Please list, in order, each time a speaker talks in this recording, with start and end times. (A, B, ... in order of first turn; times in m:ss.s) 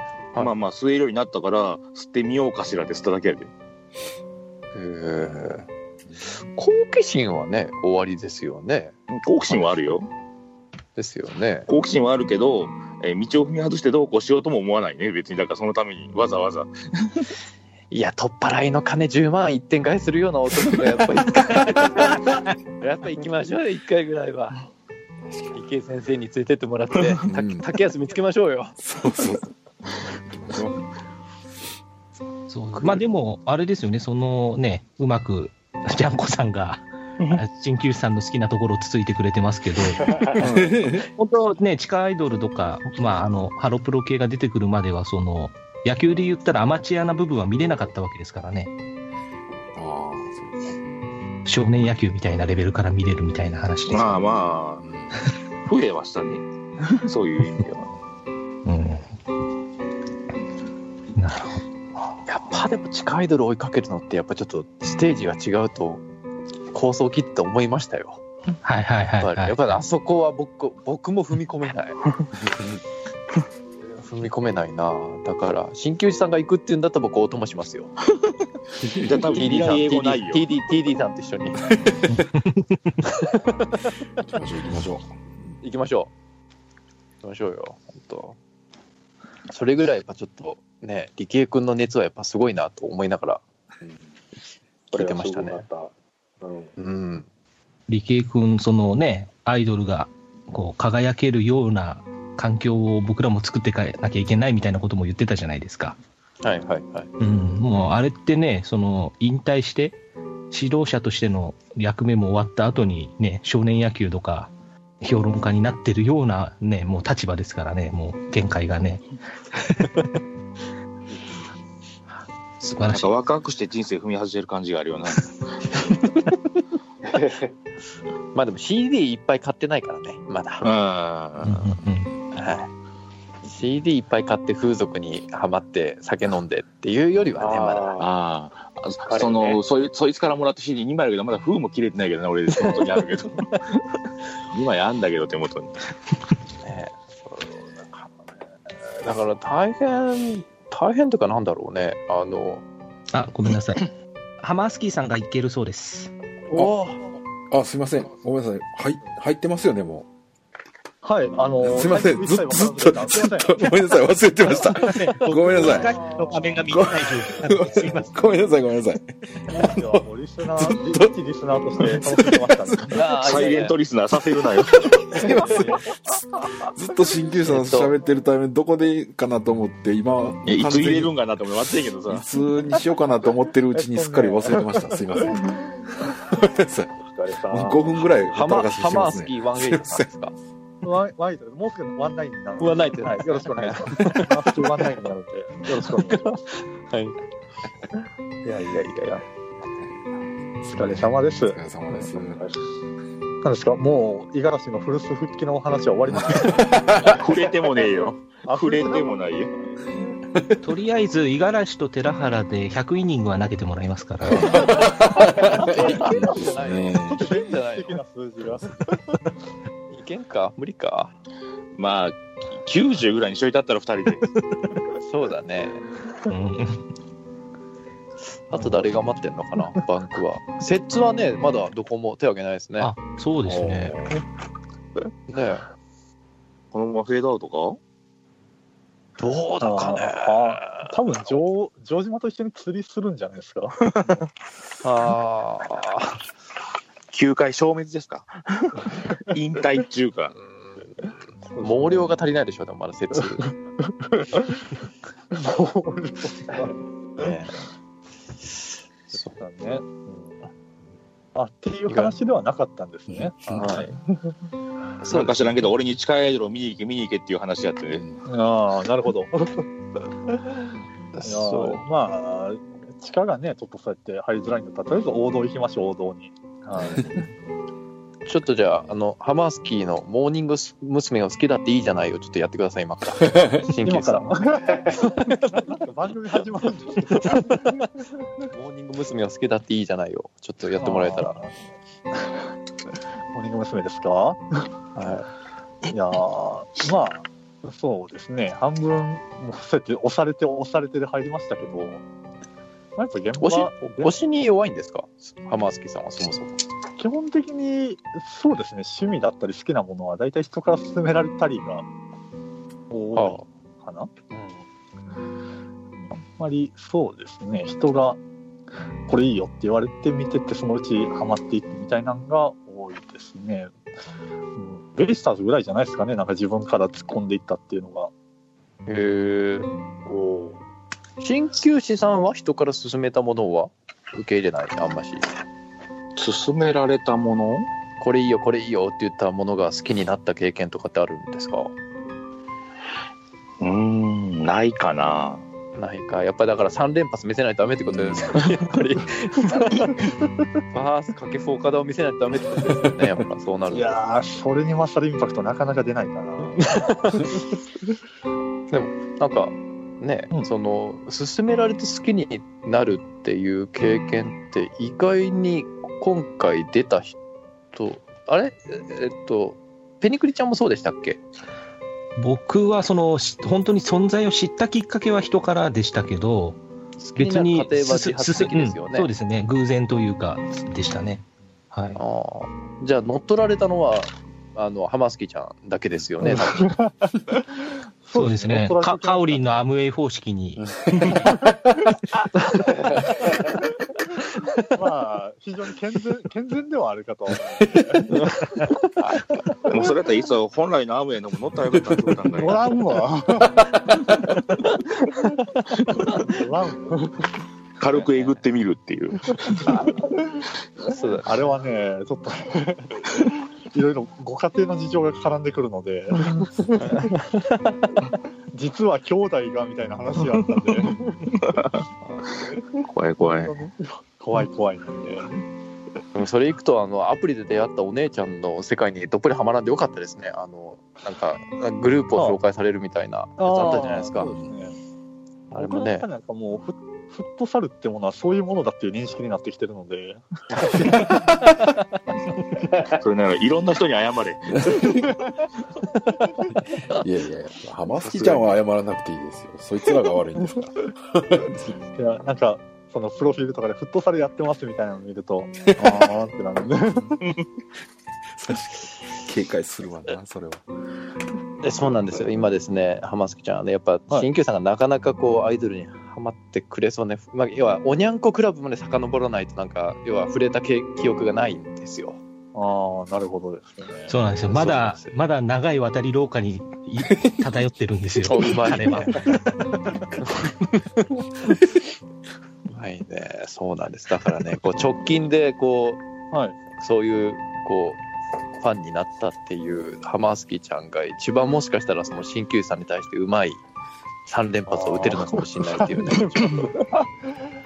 0:00.4-0:03.5 A
0:04.7-0:05.7 B
0:05.2-0:06.3 C
0:06.6-0:08.9 B
0:09.1-0:10.1 A
0:09.5-0:09.7 B
0:11.0-0:11.7 B
0:11.7-0:17.3 A
0:17.9-0:24.6 B
0:25.3-0:25.6 C
0:25.5-0:28.7 B
0:27.3-0:27.7 C
0:28.8-0:30.8 C
0:32.5-0:48.7 D
0:40.0-0:40.3 E
0:40.4-0:41.1 C
0:49.7-0:50.8 C
0:51.4-0:54.3 D
0:53.9-0:54.8 A
0:54.8-0:55.2 C
0:55.6-0:56.4 A
0:56.9-0:57.9 A
0:58.6-0:59.0 D
1:01.2-1:01.6 D
1:02.2-1:06.0 B
1:06.7-1:08.2 B
1:08.6-1:09.6 D
1:09.2-1:12.0 B
1:12.4-1:12.8 C
1:13.9-1:17.9 B
1:18.8-1:19.2 C
1:19.0-1:20.4 A
1:19.3-1:21.6 B
1:22.1-1:22.4 D
1:23.1-1:23.7 B
1:24.2-1:25.1 C
1:25.6-1:26.1 B
1:27.2-1:28.4 B
1:29.5-1:33.4 B
1:34.9-1:36.7 E
1:34.9-1:35.6 B
1:36.8-1:37.3 B
1:37.9-1:46.0 D
1:46.4-1:47.1 B
1:47.2-1:50.0 D
1:50.5-1:59.0 D
2:02.6-2:03.1 D
2:02.9-2:05.9 A
2:07.1-2:07.5 E
2:08.3-2:10.7 B
2:10.6-2:11.7 A
2:11.4-2:12.1 D
2:12.3-2:12.7 B
2:13.4-2:17.9 B
2:17.4-2:18.1 E
2:18.0-2:23.5 A
2:19.1-2:19.6 E
2:24.5-2:25.7 A
2:26.6-2:28.2 B
2:29.0-2:32.6 B
2:33.1-2:33.9 D
2:34.4-2:36.1 D
2:36.5-2:37.0 B
2:37.5-2:40.1 C
2:41.0-2:43.7 F
2:41.6-2:51.2 C
2:45.5-2:46.6 F
2:45.5-2:46.4 B
2:46.4-2:48.0 D
2:49.5-2:53.0 F
2:51.8-2:52.9 C
2:52.9-2:53.8 B
2:53.2-2:55.2 A
2:55.1-2:55.8 C
2:55.3-2:55.6 B
2:56.7-3:01.1 C
2:57.4-2:57.9 B
3:00.4-3:02.2 A
3:02.1-3:05.6 C
3:03.8-3:05.6 F
3:06.3-3:06.9 C
3:07.0-3:08.1 E
3:07.5-3:10.1 C
3:08.3-3:10.3 B
3:10.8-3:16.4 F
3:12.6-3:14.5 B
3:15.8-3:17.2 B
3:18.5-3:19.2 B
3:20.6-3:22.4 C
3:20.7-3:21.6 F
3:22.2-3:22.7 E
3:23.4-3:27.1 F
3:26.1-3:27.2 C
3:27.0-3:29.5 A
3:28.4-3:30.2 F
3:30.6-3:34.7 D
3:34.2-3:37.2 C
3:35.4-3:38.0 B
3:35.6-3:36.4 F
3:37.1-3:38.9 F
3:39.9-3:41.1 B
3:41.7-3:44.2 A
3:45.0-3:45.8 B
3:46.3-3:46.8 D
3:48.5-3:52.9 B
3:48.6-3:48.9 F
3:52.8-3:54.0 D
3:55.3-3:55.6 B
3:56.7-3:57.8 A
3:59.2-4:01.0 B
3:59.6-4:03.8 F
4:04.8-4:06.2 B
4:07.1-4:10.3 A
4:10.8-4:13.4 B
4:11.5-4:12.2 F
4:13.4-4:14.7 F
4:15.3-4:17.4 F
4:17.2-4:17.5 B
4:19.3-4:20.4 F
4:21.3-4:24.3 F
4:21.9-4:22.1 B
4:23.1-4:23.7 C
4:23.6-4:23.9 A
4:25.0-4:25.5 B
4:25.1-4:28.1 A
4:27.9-4:28.2 C
4:28.2-4:29.6 F
4:30.3-4:30.5 F
4:31.1-4:31.8 B
4:31.2-4:37.2 F
4:38.2-4:44.3 B
4:43.8-4:47.8 F
4:44.9-4:45.6 B
4:47.2-4:47.6 B
4:48.5-4:51.4 B
4:50.8-4:51.5 F
4:53.3-4:54.4 F
4:55.0-4:55.3 B
4:55.9-5:02.0 F
5:03.0-5:04.1 F
5:03.4-5:06.6 B
5:07.0-5:11.8 F
5:12.9-5:14.1 F
5:13.1-5:13.4 B
5:16.0-5:18.2 F
5:19.1-5:23.7 F
5:24.6-5:28.1 F
5:28.9-5:29.7 B
5:30.1-5:30.6 E
5:31.2-5:35.2 B
5:36.1-5:37.7 A
5:38.0-5:41.7 B
5:43.6-5:45.4 A
5:45.8-5:49.9 B
5:47.9-5:48.2 C
5:50.7-5:54.0 B
5:53.7-5:57.4 F
5:56.6-5:57.3 B
5:58.7-6:07.2 B
6:07.7-6:11.2 B
6:12.2-6:16.6 D
6:17.0-6:19.1 B
6:17.2-6:22.0 D
6:22.0-6:26.7 B
6:26.2-6:29.4 F
6:28.1-6:31.2 D
6:32.4-6:32.8 B
6:34.7-6:38.7 F
6:39.6-6:42.7 A
6:42.3-6:44.4 F
6:45.1-6:47.2 F
6:47.8-6:49.8 A
6:47.9-6:48.4 B
6:49.7-6:50.1 F
6:50.9-6:51.3 B
6:51.2-6:57.2 F
6:56.8-6:57.8 B
6:58.5-7:01.4 F
7:01.4-7:01.8 A
7:02.9-7:03.6 A
7:03.2-7:05.3 F
7:06.1-7:14.3 B
7:13.4-7:14.8 F
7:14.3-7:14.6 C
7:15.5-7:16.0 B
7:15.5-7:21.2 F
7:23.0-7:24.6 A
7:26.9-7:31.6 C
7:28.0-7:28.4 B
7:32.0-7:37.2 F
7:35.8-7:36.1 C
7:38.4-7:40.6 C
7:41.6-7:52.2 B
7:41.8-7:42.3 C
7:52.5-7:54.1 F
7:54.1-7:59.4 D
7:54.5-7:55.2 B
7:58.2-7:59.2 B
8:00.2-8:00.7 B
8:02.7-8:06.0 B
8:06.3-8:06.6 F
8:06.8-8:08.0 B
8:08.6-8:13.6 B
8:14.2-8:16.7 B
8:14.7-8:17.0 F